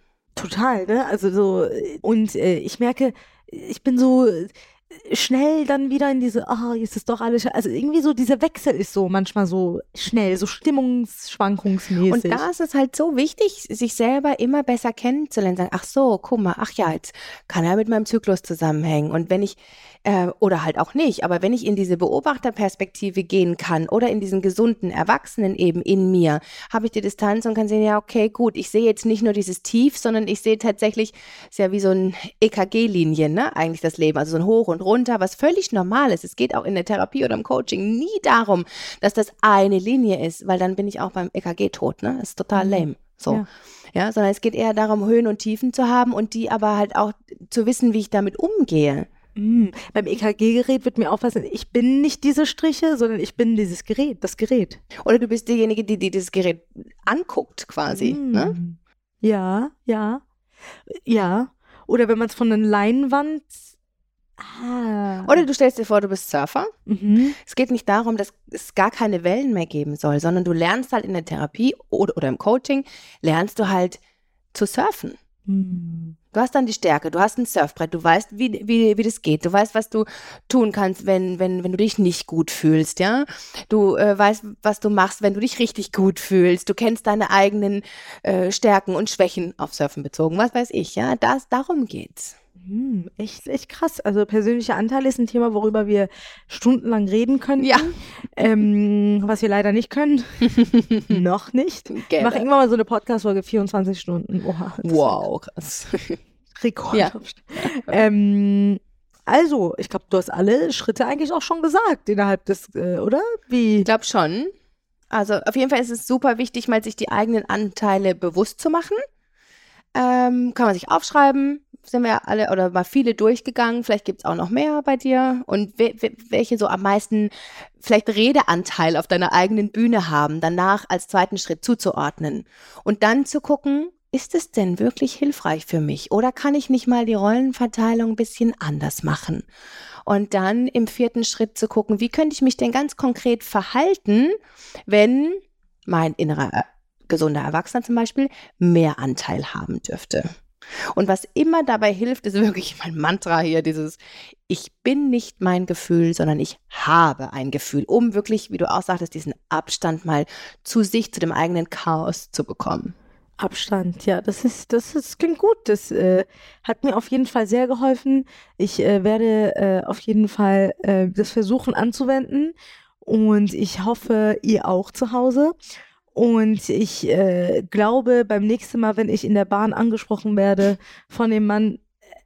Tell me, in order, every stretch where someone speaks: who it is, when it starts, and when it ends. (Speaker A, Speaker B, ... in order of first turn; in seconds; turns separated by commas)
Speaker A: 0.4-4.5, Speaker A: 5.1-12.4, Speaker B: 12.1-49.1, Speaker A: 42.6-43.5, Speaker A: 49.4-54.8, Speaker B: 55.0-58.5, Speaker A: 57.9-60.2, Speaker A: 60.9-63.6, Speaker A: 64.4-65.5, Speaker B: 65.3-66.7, Speaker A: 66.9-67.4, Speaker B: 67.4-74.0, Speaker B: 74.5-75.2, Speaker A: 75.5-76.2, Speaker B: 76.3-92.3, Speaker A: 92.6-105.2, Speaker B: 97.6-98.5, Speaker B: 101.9-102.5, Speaker B: 104.8-106.2, Speaker A: 106.6-113.9, Speaker B: 113.8-114.5, Speaker B: 115.1-119.0, Speaker B: 120.0-139.5, Speaker B: 140.1-144.3, Speaker B: 144.9-150.3, Speaker B: 150.9-162.9, Speaker A: 163.4-172.5, Speaker A: 173.1-175.6, Speaker A: 176.2-181.8